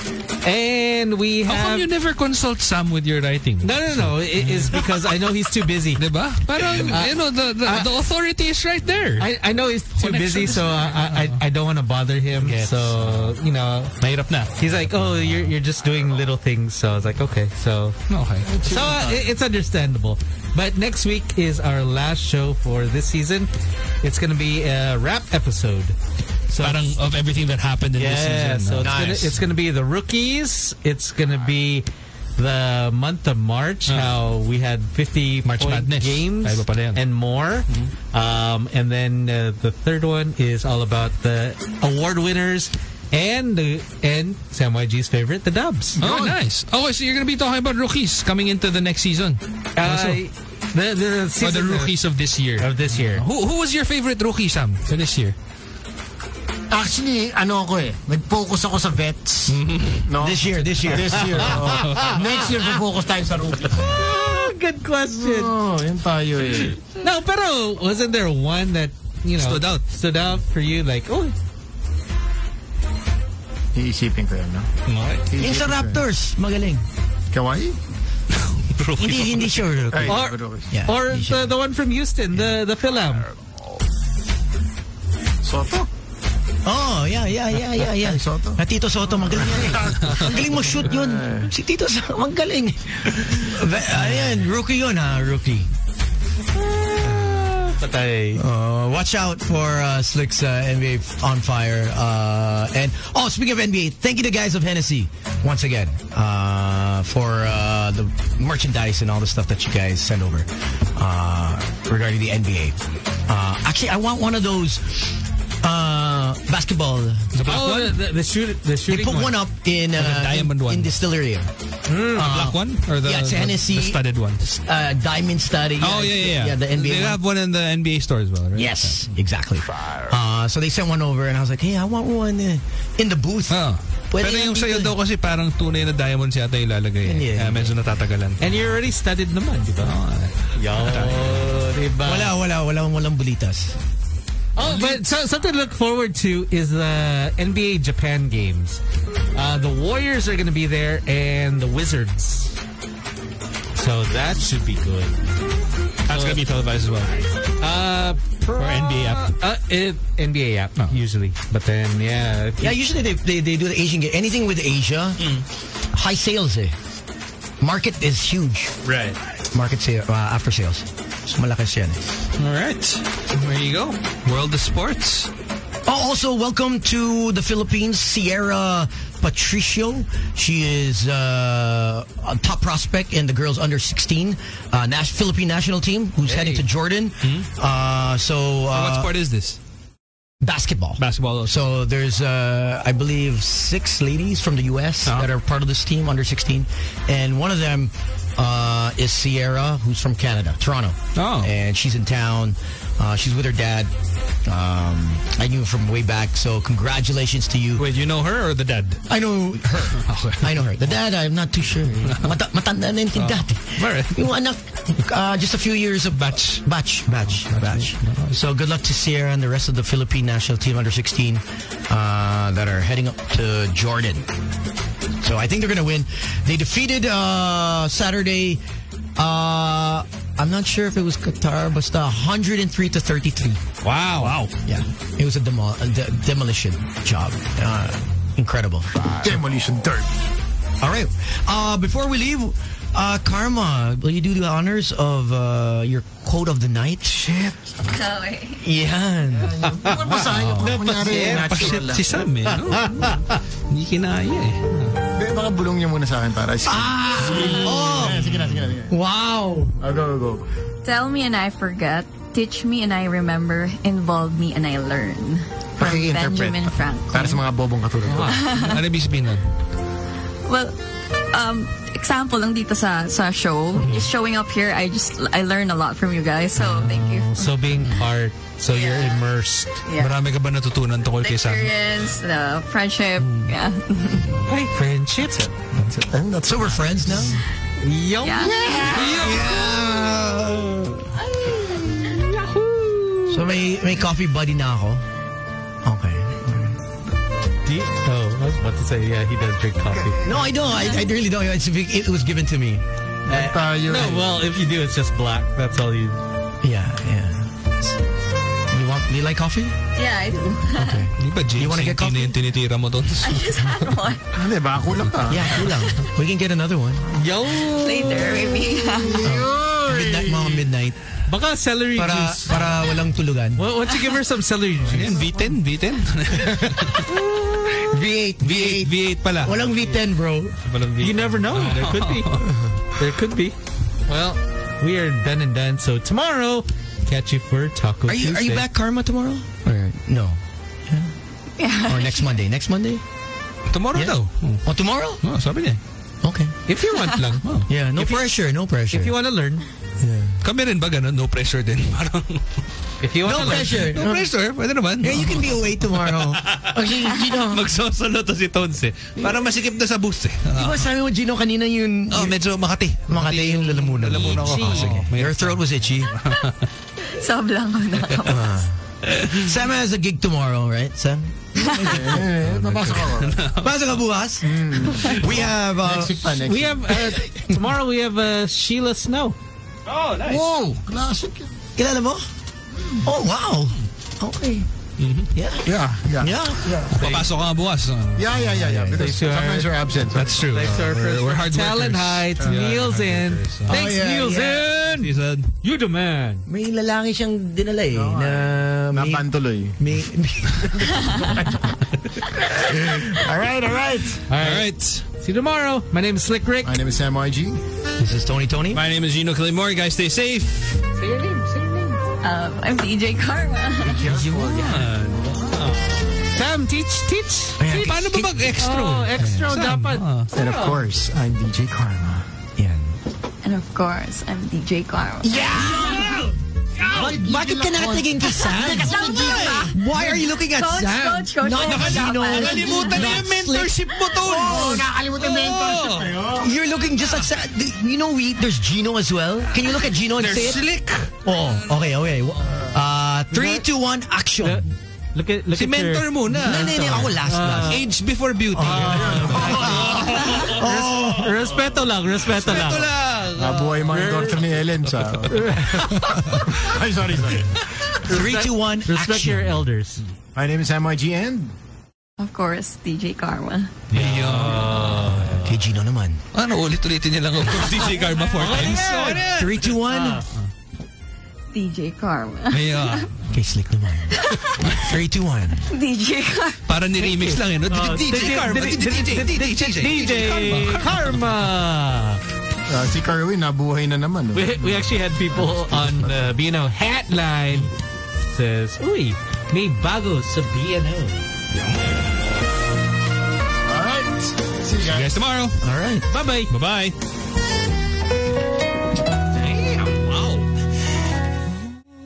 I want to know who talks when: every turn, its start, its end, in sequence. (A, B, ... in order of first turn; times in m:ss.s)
0:00.4-0:01.9 A
0:01.5-0:05.3 B
0:03.6-0:06.0 A
0:06.0-0:09.3 B
0:06.8-0:07.9 A
0:09.2-0:18.0 A
0:10.0-0:11.4 B
0:12.4-0:13.3 B
0:14.3-0:14.5 B
0:18.1-0:18.5 B
0:18.4-0:19.3 C
0:18.6-0:23.5 A
0:24.0-0:26.0 A
0:26.5-0:26.9 A
0:26.6-0:29.2 B
0:28.0-0:31.9 A
0:28.8-0:29.4 D
0:32.4-0:46.0 A
0:33.9-0:34.2 B
0:35.4-0:37.0 B
0:46.0-0:46.4 C
0:46.0-0:50.2 B
0:49.8-0:51.9 A
0:51.4-0:55.4 B
0:52.6-0:53.2 A
0:56.7-1:04.5 C
0:59.5-1:00.1 B
1:00.2-1:01.5 D
1:01.3-1:02.2 B
1:01.6-1:02.4 A
1:03.8-1:05.6 A
1:05.2-1:06.8 C
1:07.0-1:11.4 A
1:09.4-1:09.8 B
1:13.8-1:14.7 C
1:14.9-1:15.2 B
1:15.3-1:16.0 C
1:15.4-1:16.8 D
1:17.3-1:17.8 C
1:18.3-1:19.8 B
1:19.0-1:21.5 D
1:19.9-1:20.7 C
1:20.1-1:23.3 A
1:25.4-1:25.9 C
1:26.6-1:35.7 D
1:27.8-1:28.6 C
1:29.4-1:31.5 C
1:36.9-1:38.4 A
1:37.0-1:37.5 D
1:38.4-1:57.3 D
1:57.3-1:58.0 B
1:57.4-1:59.4 A
1:58.9-2:01.5 D
2:00.0-2:01.0 B
2:01.9-2:02.4 A
2:02.1-2:07.2 D
2:02.2-2:04.4 B
2:05.8-2:09.0 B
2:08.6-2:13.6 D
2:13.5-2:18.5 B
2:14.1-2:15.0 D
2:17.0-2:17.8 D
2:18.4-2:22.3 A
2:19.8-2:21.5 B
2:22.0-2:23.8 D
2:24.6-2:28.8 A
2:29.3-2:32.6 A
2:33.8-2:35.2 A
2:36.1-2:37.2 B
2:36.1-2:36.4 A
2:37.6-2:42.8 A
2:38.6-2:39.3 B
2:42.6-2:45.3 D
2:45.2-2:45.4 B
2:45.9-2:46.8 D
2:47.6-2:48.7 D
2:48.8-2:49.2 B
2:49.5-2:52.0 D
2:52.4-2:55.3 B
2:55.9-3:09.1 D
3:06.2-3:06.6 A
3:07.2-3:07.5 B
3:08.7-3:09.6 B
3:10.4-3:23.9 D
3:11.0-3:11.6 B
3:21.2-3:21.5 B
3:24.4-3:27.9 D
3:27.8-3:29.0 B
3:29.1-3:44.3 D
3:29.8-3:30.7 B
3:32.0-3:32.4 B
3:33.2-3:34.3 B
3:36.1-3:36.6 B
3:37.3-3:38.4 B
3:45.2-3:48.6 D
3:49.2-3:53.6 D
3:53.8-3:54.4 A
3:54.2-3:54.5 B
3:54.6-3:59.4 D
3:59.2-4:00.1 C
4:00.8-4:07.3 D
4:07.1-4:07.8 C
4:07.9-4:08.6 E
4:08.6-4:09.5 D
4:09.3-4:12.2 C
4:09.6-4:13.4 A
4:10.3-4:15.0 B
4:15.2-4:19.0 C
4:16.6-4:19.8 D
4:17.4-4:17.8 E
4:19.8-4:20.4 C
4:20.8-4:27.4 E
4:25.8-4:28.5 C
4:28.1-4:29.4 B
4:28.3-4:28.8 E
4:30.5-4:30.8 E
4:31.3-4:37.5 E
4:33.8-4:34.1 B
4:36.6-4:39.8 A
4:38.7-4:39.3 E
4:39.9-4:40.2 E
4:40.0-4:41.7 B
4:41.2-4:44.3 E
4:43.2-4:43.5 B
4:44.5-4:45.5 A
4:45.8-4:47.4 C
4:46.5-4:47.4 D
4:47.8-4:48.6 A
4:48.2-4:49.2 E
4:48.4-4:51.1 D
4:48.6-4:49.1 C
4:48.9-4:49.5 B
4:51.2-4:52.0 E
4:52.0-4:53.5 A
4:53.3-4:55.0 D
4:55.8-4:56.8 D
4:57.7-5:00.2 A
4:59.9-5:00.7 C
5:00.2-5:03.6 D
5:03.3-5:04.4 C
5:03.4-5:06.2 A
5:06.6-5:08.0 D
5:08.7-5:09.8 D
5:10.0-5:11.1 E
5:10.8-5:12.4 D
5:11.2-5:13.5 B
5:13.2-5:14.3 E
5:14.3-5:15.7 C
5:15.3-5:17.1 D
5:17.1-5:18.5 A
5:17.7-5:19.3 E
5:19.2-5:20.6 C
5:19.2-5:21.0 D
5:21.3-5:22.6 A
5:22.0-5:23.6 D
5:23.6-5:25.3 A
5:23.9-5:24.2 E
5:24.9-5:27.1 B
5:27.1-5:30.6 D
5:28.4-5:29.7 B
5:30.6-5:32.5 B
5:31.0-5:38.7 A
5:32.4-5:32.7 D
5:38.0-5:41.1 D
5:41.6-5:42.3 E
5:41.8-5:43.0 D
5:43.7-5:44.6 B
5:43.9-5:45.2 D
5:45.2-5:45.8 B
5:46.2-5:46.6 D
5:46.7-5:47.4 A
5:47.4-5:47.7 B
5:47.7-5:49.2 D
5:48.0-5:48.4 A
5:48.9-5:49.7 A
5:50.0-5:50.4 D
5:50.4-5:52.4 B
5:53.0-5:54.0 A
5:53.2-5:54.3 D
5:53.5-5:56.9 B
5:55.0-5:57.7 D
5:57.4-6:00.9 B
6:00.5-6:02.4 D
6:02.1-6:06.7 B
6:03.1-6:06.1 D
6:04.2-6:05.0 A
6:07.0-6:08.5 E
6:08.0-6:08.2 B
6:08.2-6:12.2 D
6:09.1-6:09.4 B
6:11.7-6:13.4 C
6:12.2-6:13.8 B
6:13.6-6:17.6 D
6:14.4-6:16.9 C
6:16.4-6:19.4 A
6:19.9-6:20.4 B
6:20.2-6:21.5 C
6:21.8-6:22.3 D
6:23.0-6:24.7 D
6:25.0-6:25.3 B
6:25.3-6:27.2 D
6:25.7-6:27.2 C
6:26.9-6:28.4 B
6:28.2-6:30.8 C
6:28.4-6:29.3 D
6:29.0-6:29.7 A
6:30.1-6:33.9 B
6:30.4-6:36.4 A
6:33.7-6:34.7 D
6:34.6-6:35.5 B
6:36.5-6:39.3 D
6:37.9-6:39.8 C
6:39.8-6:41.3 D
6:41.0-6:44.2 C
6:44.3-6:46.8 A
6:44.4-6:45.0 B
6:46.6-6:47.6 C
6:48.0-6:48.8 D
6:48.7-6:50.8 B
6:51.0-6:52.0 A
6:52.2-6:54.1 E
6:53.8-6:54.9 C
6:54.1-6:55.3 B
6:54.1-6:54.8 D
6:55.3-6:57.9 A
6:57.6-6:58.5 D
6:57.7-7:00.3 B
6:58.6-7:00.8 A
7:00.3-7:02.2 C
7:02.6-7:03.0 D
7:03.4-7:06.1 E
7:05.2-7:06.1 D
7:05.3-7:09.7 C
7:06.8-7:14.0 D
7:08.6-7:13.2 E
7:09.2-7:09.7 B
7:11.5-7:16.2 B
7:14.2-7:16.5 C
7:16.4-7:20.6 D
7:20.2-7:21.1 B
7:21.2-7:24.6 D
7:23.3-7:23.6 A
7:24.4-7:26.7 A
7:25.6-7:31.1 B
7:26.3-7:27.8 D
7:27.2-7:27.8 A
7:28.5-7:31.4 D
7:28.6-7:32.9 A
7:28.9-7:30.3 C
7:32.2-7:35.3 B
7:33.4-7:35.4 C
7:33.9-7:34.4 A
7:35.3-7:36.1 A
7:36.4-7:37.6 C
7:38.0-7:39.6 D
7:38.1-7:40.0 A
7:40.4-7:41.5 C
7:42.2-7:43.7 E
7:43.9-7:45.6 A
7:43.9-7:45.2 B
7:45.4-7:46.2 D
7:46.3-7:49.7 B
7:47.8-7:50.2 A
7:49.2-7:50.2 D
7:51.5-7:53.1 E
7:52.5-7:53.3 B
7:53.3-7:55.6 D
7:54.1-7:54.6 E
7:55.7-7:56.6 E
7:56.7-8:01.3 B
7:57.0-8:02.2 A
8:00.1-8:00.5 D
8:02.7-8:06.2 C
8:04.3-8:07.7 A
8:08.3-8:11.2 A
8:13.7-8:15.2 C
8:14.9-8:15.6 B
8:15.6-8:16.1 D
8:16.1-8:16.5 A
8:16.5-8:17.0 B
8:19.4-8:20.5 A